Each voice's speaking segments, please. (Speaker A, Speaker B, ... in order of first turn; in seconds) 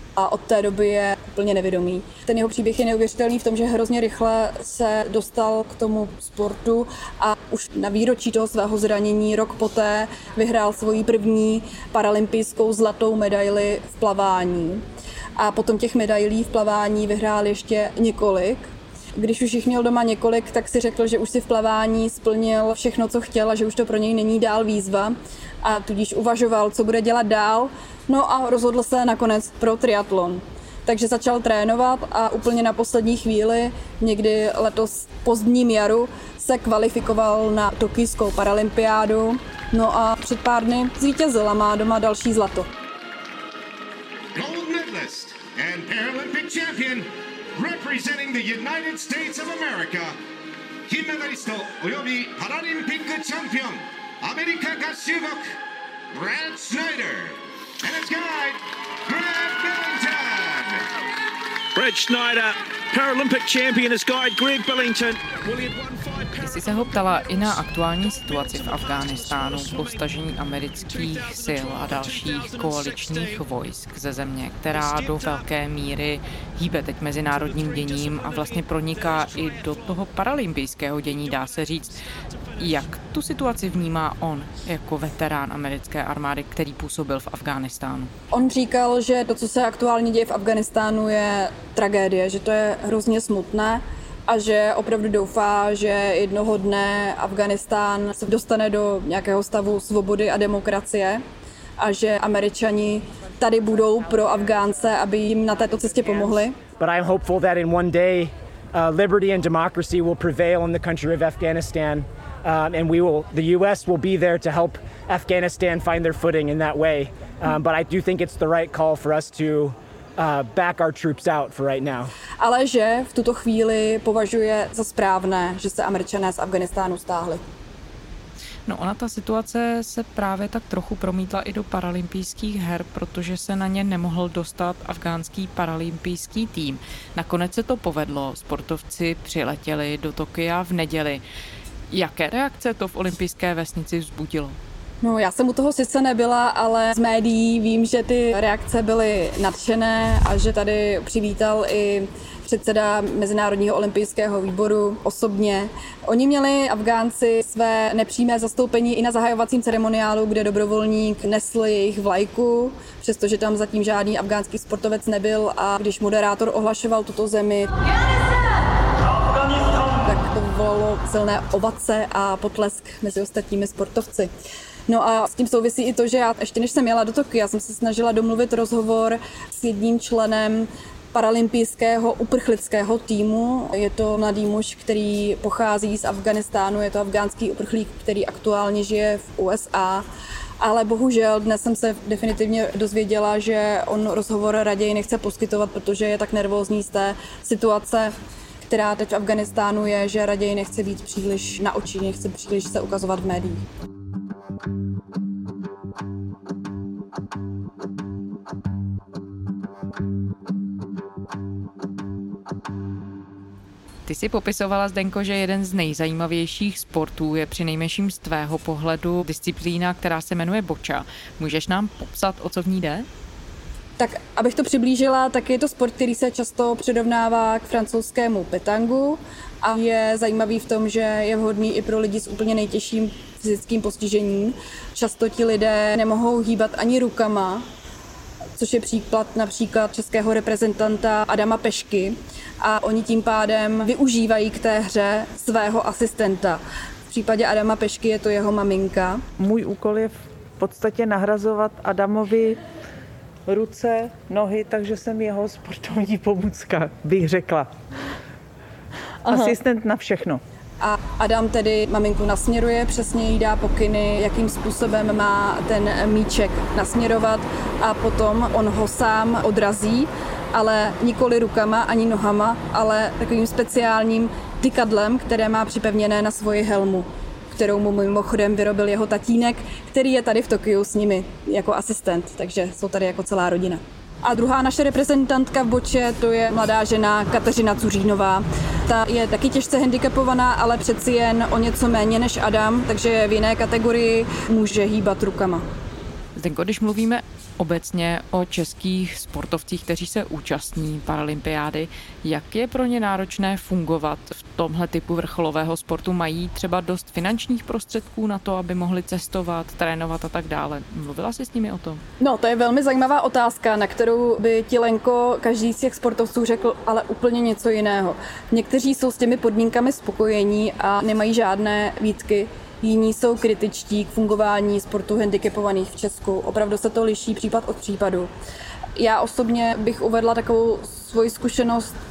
Speaker A: 0.2-14.8, 15.4-42.7, 88.3-101.2, 101.8-106.6, 122.4-127.4, 145.0-167.8, 170.0-174.3, 174.9-190.0, 190.6-203.6, 224.0-237.6, 238.6-249.2, 260.8-295.6, 312.2-328.3, 329.0-331.9
Speaker B: 44.3-50.2, 50.9-55.5, 56.1-60.8
Speaker C: 61.7-70.1, 70.7-73.4, 74.7-75.5, 77.3-80.1, 81.0-82.9
Speaker D: 66.4-82.0, 82.6-88.1, 128.7-141.2, 141.9-144.6, 214.1-223.1, 296.4-312.0
Speaker E: 106.8-122.1
Speaker F: 249.4-252.6, 253.5-257.7, 259.2-260.4